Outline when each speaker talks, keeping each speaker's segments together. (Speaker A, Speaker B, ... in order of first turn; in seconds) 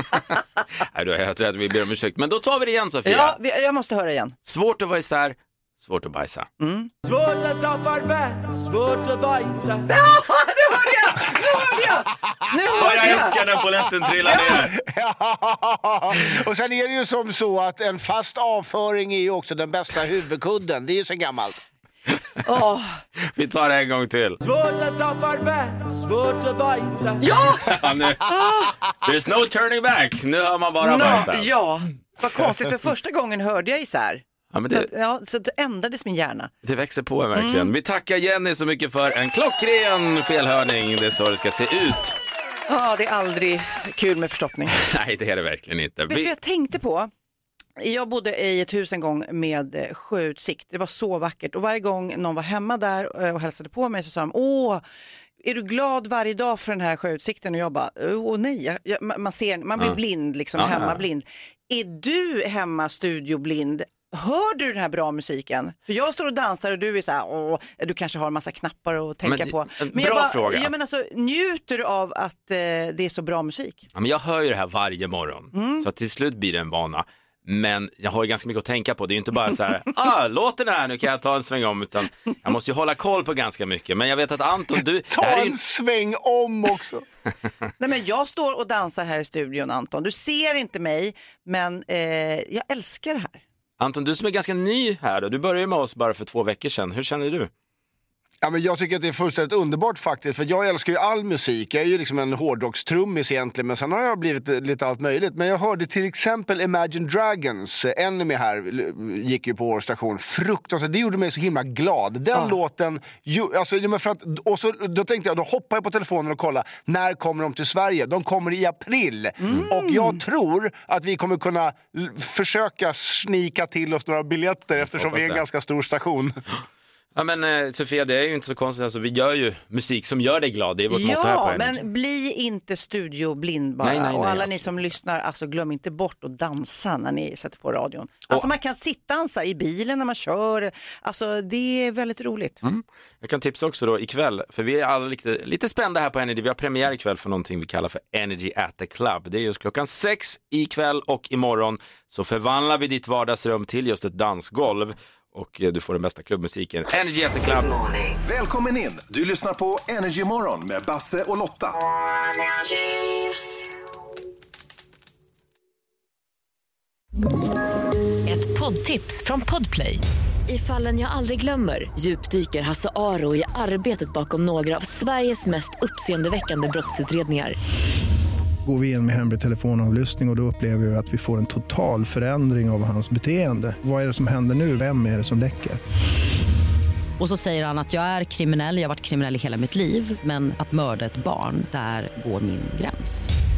Speaker A: 0.9-3.4, 4.5-6.5, 12.7-14.7, 23.3-24.4, 27.7-28.3, 29.0-31.5, 34.5-34.9, 36.6-42.1, 44.8-46.3, 60.5-61.0, 69.2-70.7, 74.0-85.6, 93.8-97.5, 124.8-125.4, 127.2-131.8, 133.8-135.0, 142.6-157.8
Speaker B: 3.0-4.3, 6.6-6.9, 9.9-13.4, 14.2-14.6, 22.4-23.0, 27.2-27.8, 28.3-28.7, 30.8-36.5, 37.3-37.7, 42.7-44.8, 46.1-47.1, 47.8-54.8, 55.4-73.9, 75.5-75.9, 87.8-93.4, 112.3-112.6, 119.4-120.2, 130.9-142.6
Speaker C: 7.0-9.9, 24.4-27.2
Speaker D: 14.3-21.6, 85.1-87.0, 98.4-126.3
Speaker E: 158.2-161.8
Speaker F: 168.3-177.6
Speaker G: 178.7-185.8
Speaker H: 187.2-193.3